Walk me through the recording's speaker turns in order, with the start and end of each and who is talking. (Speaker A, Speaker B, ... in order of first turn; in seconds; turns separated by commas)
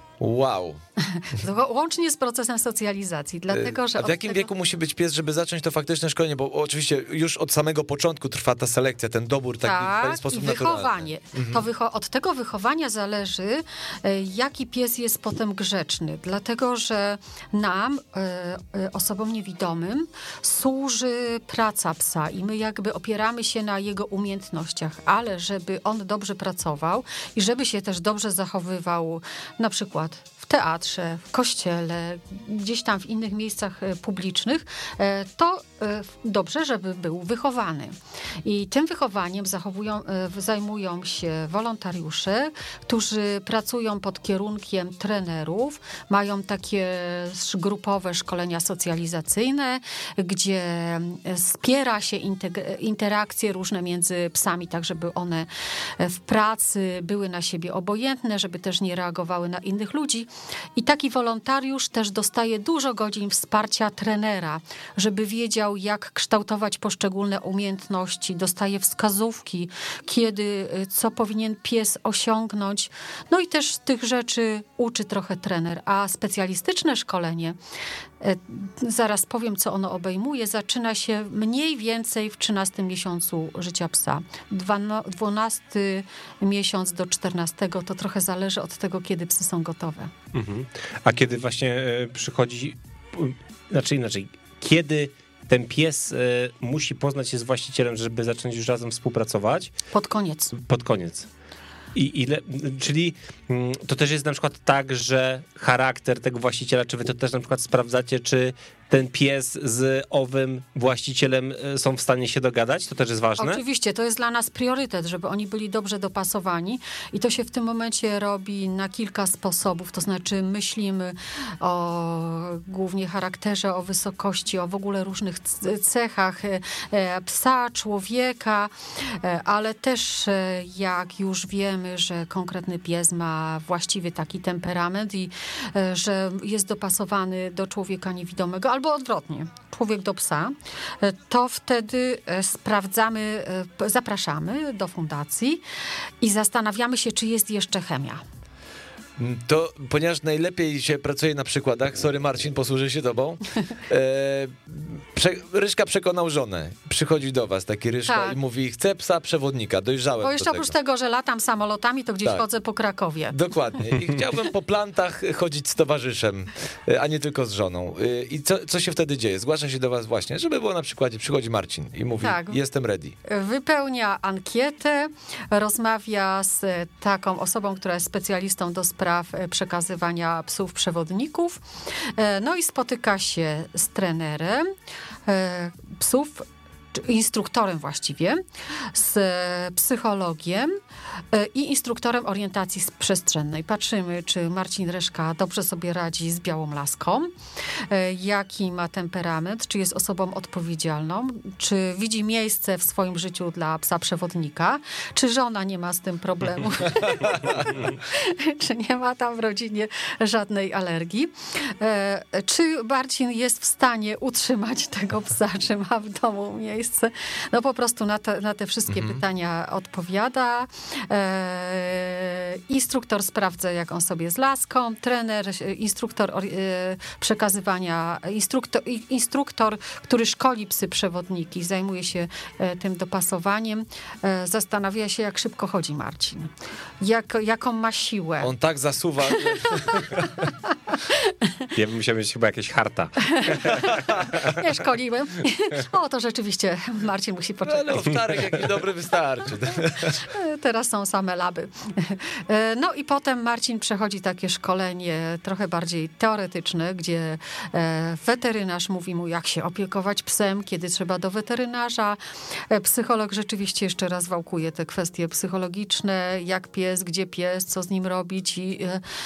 Speaker A: 0.2-0.8, Speaker B: 1.0-4.5, Speaker A: 3.5-11.6, Speaker B: 9.6-77.6, Speaker B: 78.2-90.1, Speaker C: 90.3-99.7, Speaker B: 99.9-100.5, Speaker C: 100.5-101.3, Speaker C: 101.9-113.6, Speaker B: 113.4-145.6, Speaker B: 146.2-148.2, Speaker A: 149.2-160.7, Speaker B: 158.1-158.4, Speaker B: 160.2-163.5, Speaker A: 163.3-173.2, Speaker B: 172.2-172.6, Speaker B: 173.2-184.7, Speaker B: 185.3-190.8, Speaker B: 191.3-238.5, Speaker A: 218.9-219.2, Speaker A: 238.4-240.3, Speaker B: 239.4-241.7, Speaker C: 241.7-244.4, Speaker B: 243.2-248.2, Speaker A: 247.6-250.2, Speaker B: 250.1-269.0